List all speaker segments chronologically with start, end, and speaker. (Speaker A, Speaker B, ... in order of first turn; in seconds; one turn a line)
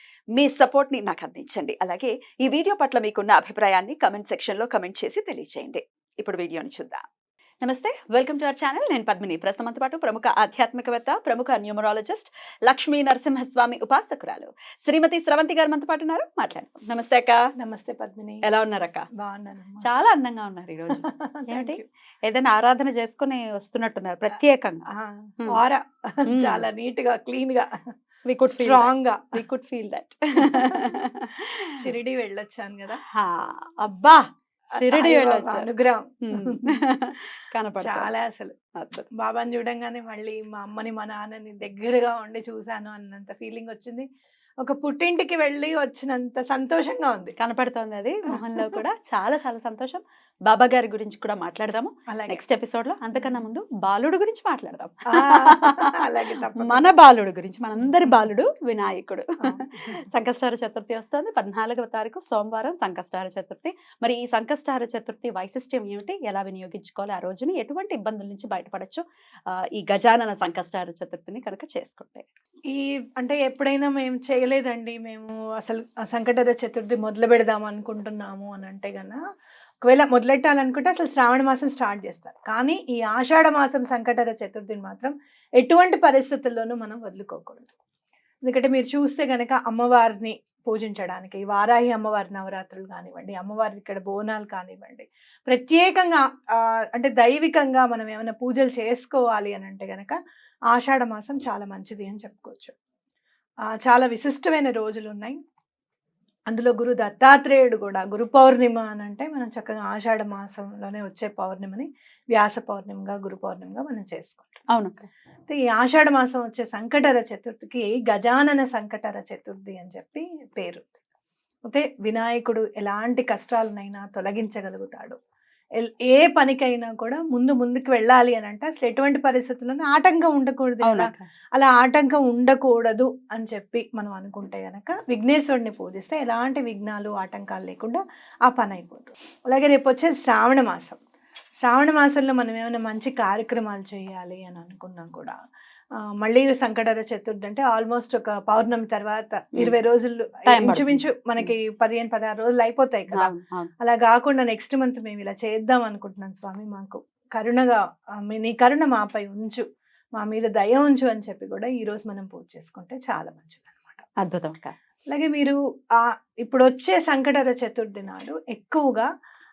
Speaker A: 0.3-7.0
Speaker A: 7.6-17.4
Speaker B: 17.6-18.4
Speaker A: 18.4-19.1
Speaker B: 19.2-19.8
Speaker A: 19.8-24.8
Speaker B: 20.9-21.8
Speaker B: 24.9-27.8
Speaker A: 26.3-26.6
Speaker A: 28.3-31.8
Speaker B: 28.4-29.4
Speaker B: 30.4-30.9
Speaker B: 31.8-33.0
Speaker A: 33.1-35.7
Speaker B: 34.8-36.8
Speaker A: 36.3-38.1
Speaker B: 37.8-38.5
Speaker A: 38.8-39.1
Speaker B: 39.2-44.0
Speaker B: 44.6-47.3
Speaker A: 47.4-55.9
Speaker B: 48.3-48.8
Speaker B: 52.1-52.4
Speaker B: 53.1-53.4
Speaker B: 55.1-56.9
Speaker A: 56.5-72.2
Speaker B: 57.8-58.2
Speaker B: 59.4-60.0
Speaker B: 72.7-79.2
Speaker B: 79.8-87.7
Speaker B: 88.4-100.2
Speaker B: 100.7-102.7
Speaker B: 103.7-105.4
Speaker B: 106.5-114.6
Speaker A: 114.7-115.0
Speaker B: 115.5-121.0
Speaker B: 121.7-125.2
Speaker B: 125.8-141.0
Speaker A: 130.8-131.3
Speaker B: 141.6-145.3
Speaker B: 146.2-159.6
Speaker A: 150.5-151.5
Speaker A: 153.1-153.7
Speaker B: 160.2-164.0
Speaker A: 164.2-164.7
Speaker B: 165.1-169.1